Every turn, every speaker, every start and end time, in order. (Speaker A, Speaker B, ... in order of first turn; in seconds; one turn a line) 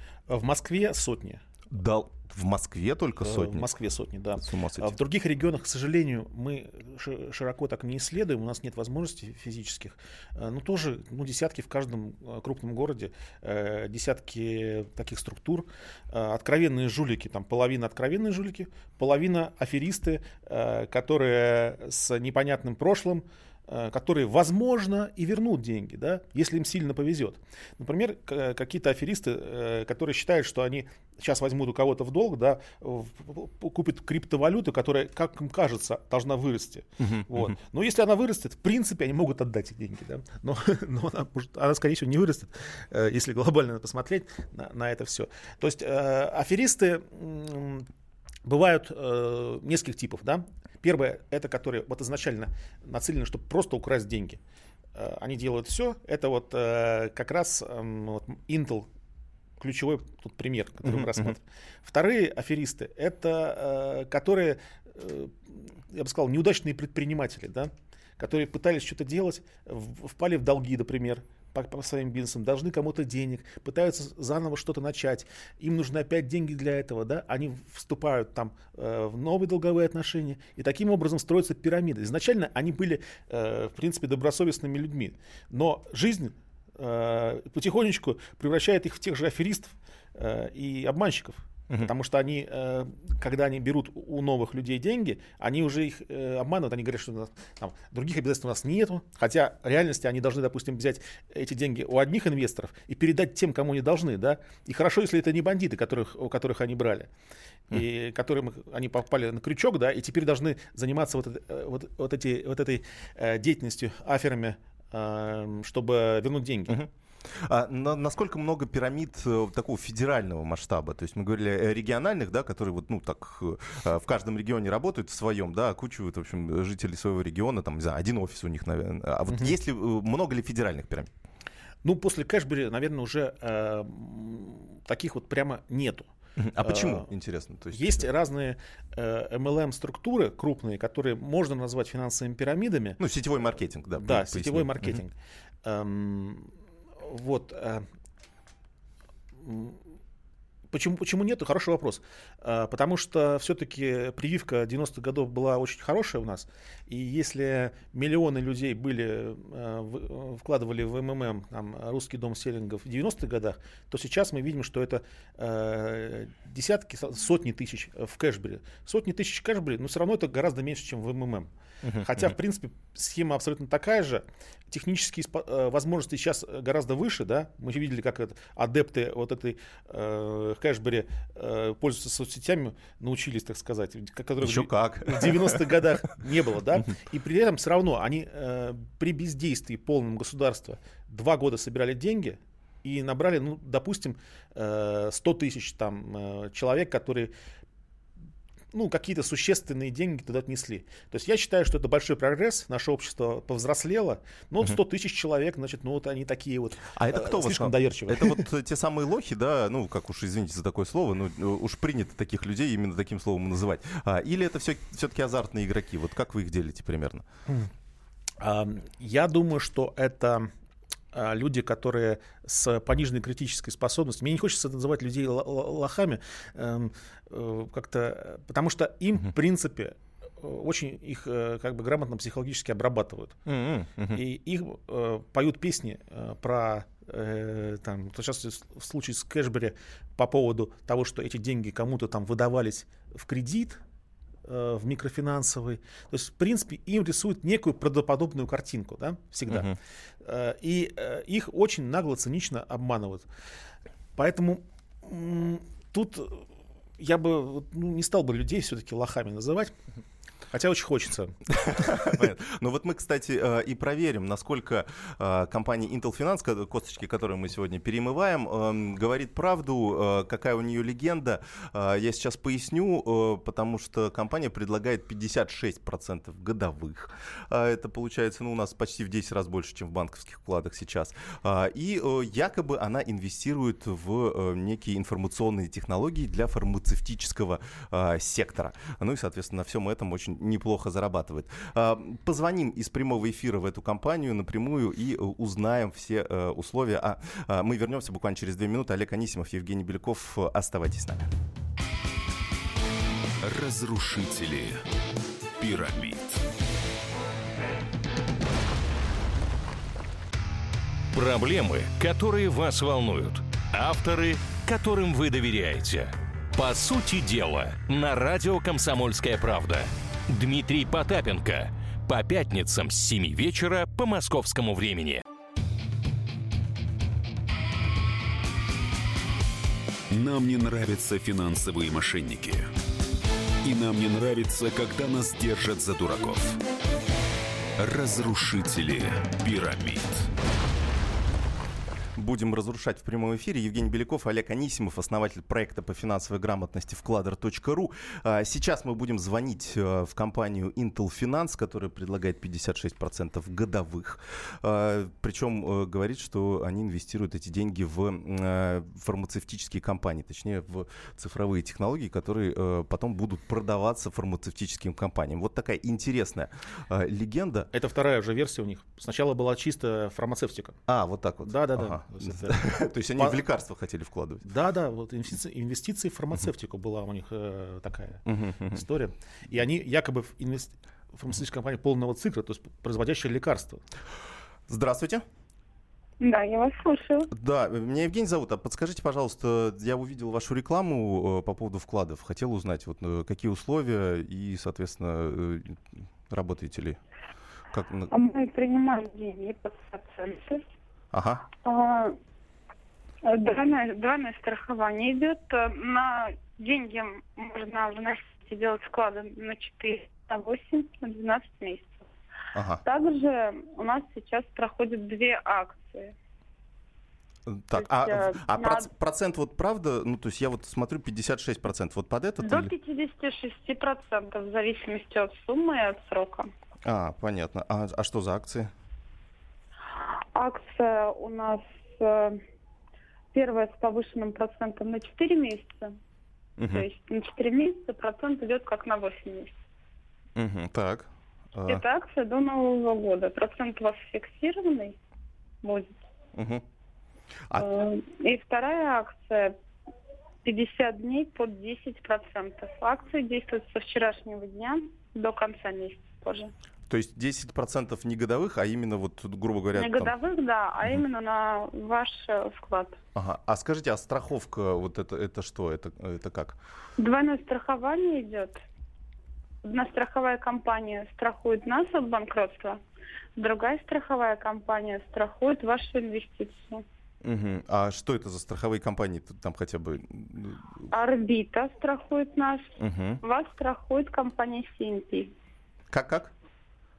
Speaker A: 0.3-1.4
Speaker B: 1.7-3.7
Speaker A: 3.2-47.9
Speaker B: 4.4-4.9
Speaker B: 37.0-37.5
Speaker A: 48.5-54.4
Speaker A: 55.0-58.9
Speaker A: 59.6-107.1
Speaker B: 60.8-61.3
Speaker A: 107.7-116.8
Speaker B: 116.7-131.1
Speaker A: 131.8-137.1
Speaker B: 136.4-138.0
Speaker A: 137.7-143.0
Speaker B: 143.0-145.0
Speaker A: 144.0-145.1
Speaker A: 145.6-147.8
Speaker A: 149.4-149.8
Speaker A: 150.7-197.3
Speaker B: 171.8-172.3
Speaker B: 184.4-185.9
Speaker A: 198.7-208.5
Speaker B: 206.9-217.2
Speaker A: 218.4-220.5
Speaker A: 221.1-233.3
Speaker B: 233.4-234.2
Speaker A: 234.1-243.8
Speaker A: 244.5-249.7
Speaker B: 249.5-249.8
Speaker A: 250.2-253.2
Speaker A: 254.2-256.5
Speaker A: 257.0-259.7
Speaker A: 260.5-261.4
Speaker B: 261.5-301.3
Speaker C: 303.4-304.8
Speaker C: 305.6-306.4
Speaker D: 311.1-325.2
Speaker C: 330.1-332.7
Speaker C: 333.6-336.6
Speaker C: 337.8-340.3
Speaker B: 342.1-367.7
Speaker A: 367.7-370.8
Speaker B: 370.9-374.4
Speaker A: 371.4-373.4
Speaker A: 374.4-383.8
Speaker B: 378.2-378.8
Speaker B: 384.7-385.2
Speaker E: 386.2-387.3
Speaker B: 387.3-397.0
Speaker B: 397.7-398.1
Speaker E: 398.1-400.6
Speaker B: 401.1-401.4
Speaker E: 401.6-402.2
Speaker E: 403.2-412.1
Speaker B: 412.5-412.8
Speaker E: 412.8-416.1
Speaker B: 417.4-422.7
Speaker E: 417.8-418.9
Speaker E: 422.4-426.5
Speaker B: 426.8-428.7
Speaker E: 430.3-432.4
Speaker E: 433.3-436.0
Speaker B: 436.6-436.9
Speaker E: 436.7-439.5
Speaker B: 440.4-441.8
Speaker E: 441.7-445.0
Speaker E: 445.6-446.0
Speaker B: 446.4-446.6
Speaker E: 447.5-449.6
Speaker E: 450.4-456.5
Speaker B: 456.9-460.1
Speaker E: 459.8-463.0
Speaker B: 463.1-466.6
Speaker E: 467.0-468.6
Speaker E: 469.6-472.8
Speaker E: 473.4-476.8
Speaker B: 477.2-480.9
Speaker E: 480.9-482.7
Speaker B: 482.8-483.2
Speaker E: 483.2-485.3
Speaker B: 485.9-486.3